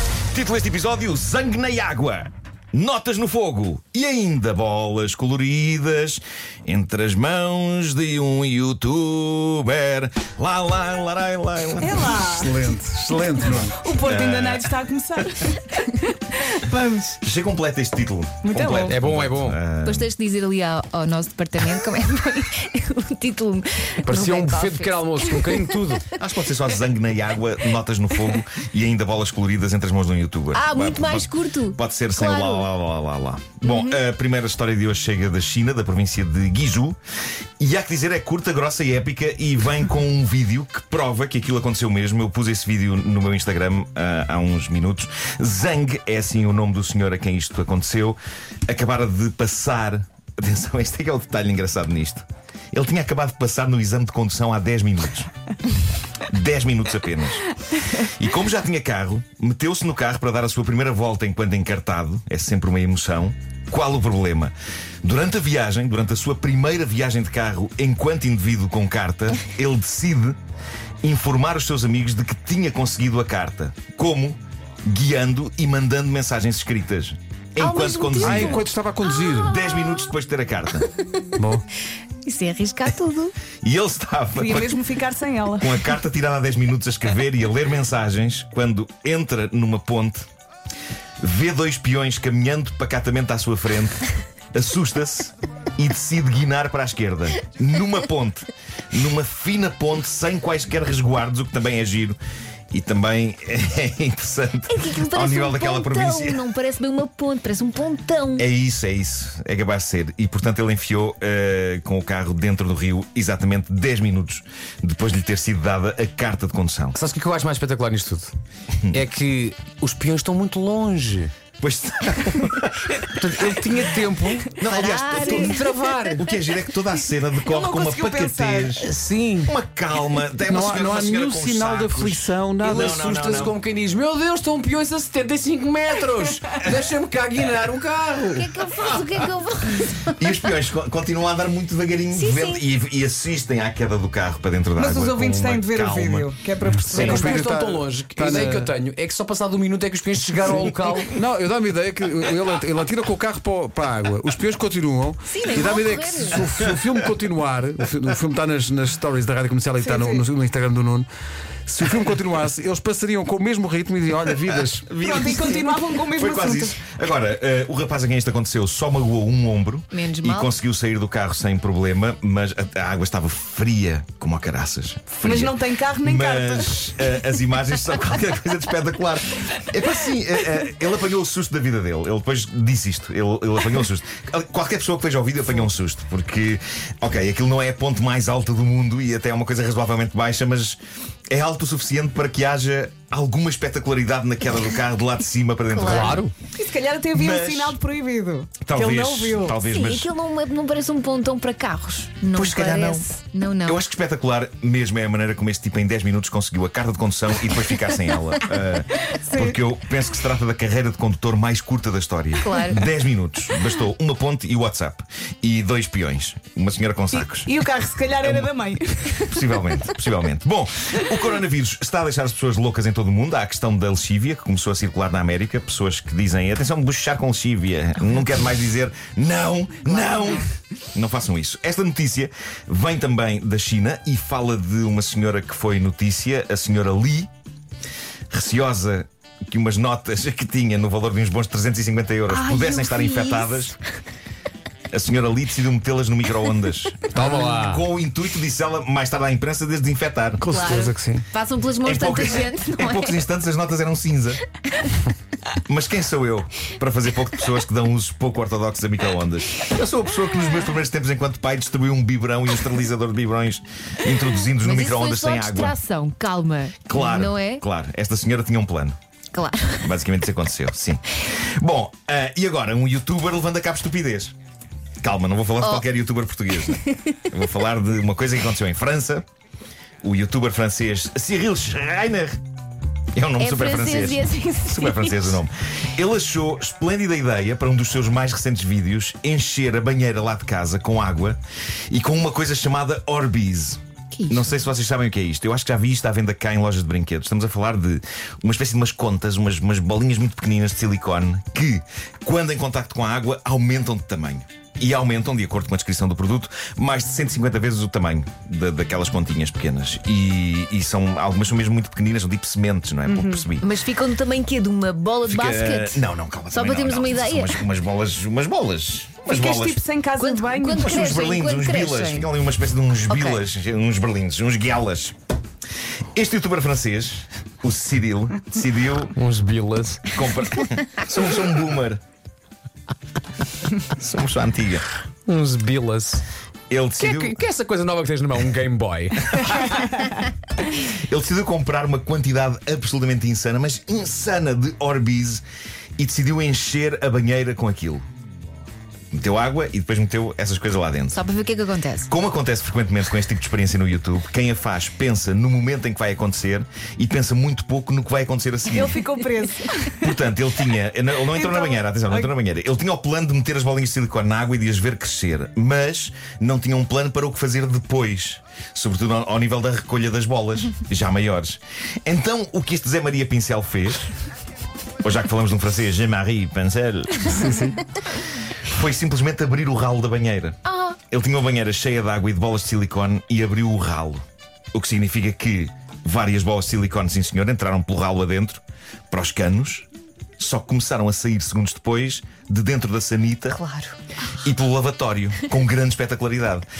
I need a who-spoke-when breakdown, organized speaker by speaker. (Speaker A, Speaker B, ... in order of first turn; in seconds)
Speaker A: 0.3-12.2, 13.4-14.7, 17.2-20.1, 26.1-37.0, 37.6-55.3, 56.2-70.4, 71.0-78.6, 79.3-80.9, 83.6-84.7, 85.6-90.3, 91.2-102.2, 102.7-106.4, 108.4-117.0, 121.6-123.7, 124.6-133.5, 136.6-136.8, 138.7-139.1, 140.1-146.3, 146.8-147.2, 156.4-156.7, 164.6-190.8, 191.3-196.2, 197.1-197.8, 198.6-200.1, 202.3-203.1, 203.7-217.5, 219.3-237.3, 238.3-243.8, 244.9-250.4, 251.8-254.4, 255.7-265.8, 266.8-269.0, 269.8-274.3, 275.0-279.2, 280.0-282.4, 283.1-291.4, 291.9-313.6, 315.3-319.8, 320.7-325.1, 326.1-329.1, 330.1-332.0, 333.8-334.9, 336.7-337.4, 340.8-345.4, 346.0-348.0, 349.1-351.2, 352.1-359.0, 359.9-374.1, 375.0-377.6, 378.7-384.2, 384.7-389.9, 390.4-393.6, 394.4-396.6
Speaker B: 11.8-12.6, 13.8-17.2, 18.4-19.0, 84.3-85.8, 127.5-128.7, 144.8-147.5, 159.8-160.2, 165.0-166.8, 175.2-176.7, 196.6-199.6, 209.3-209.6, 217.1-219.4, 313.1-313.5, 319.3-320.9, 358.7-359.9, 361.3-362.3
Speaker C: 12.0-13.8, 78.2-79.6, 81.3-81.6, 130.4-133.0, 146.9-148.7, 151.1-161.1, 161.7-164.9, 250.4-251.3, 377.3-377.8
Speaker D: 18.8-19.6, 24.0-26.1, 116.9-118.3, 118.9-121.3, 123.1-124.6, 125.1-126.2, 128.8-129.5, 132.6-138.5, 146.9-151.1, 195.9-196.3, 247.2-247.8, 329.1-330.0, 335.3-336.2, 337.0-339.6
Speaker E: 19.8-25.7, 30.5-32.7, 33.7-34.0, 77.6-78.6, 82.2-83.3, 104.7-108.4, 124.6-125.7, 138.3-140.1, 142.1-142.6, 155.3-156.4, 169.9-170.5, 195.7-196.2, 199.6-203.8, 212.4-212.8, 242.3-243.7, 250.5-253.2, 264.6-267.6, 269.3-269.9, 283.4-285.2, 294.1-294.5, 313.6-317.6, 320.2-322.3, 323.1-323.4, 351.1-352.1, 380.6-381.0, 393.5-394.0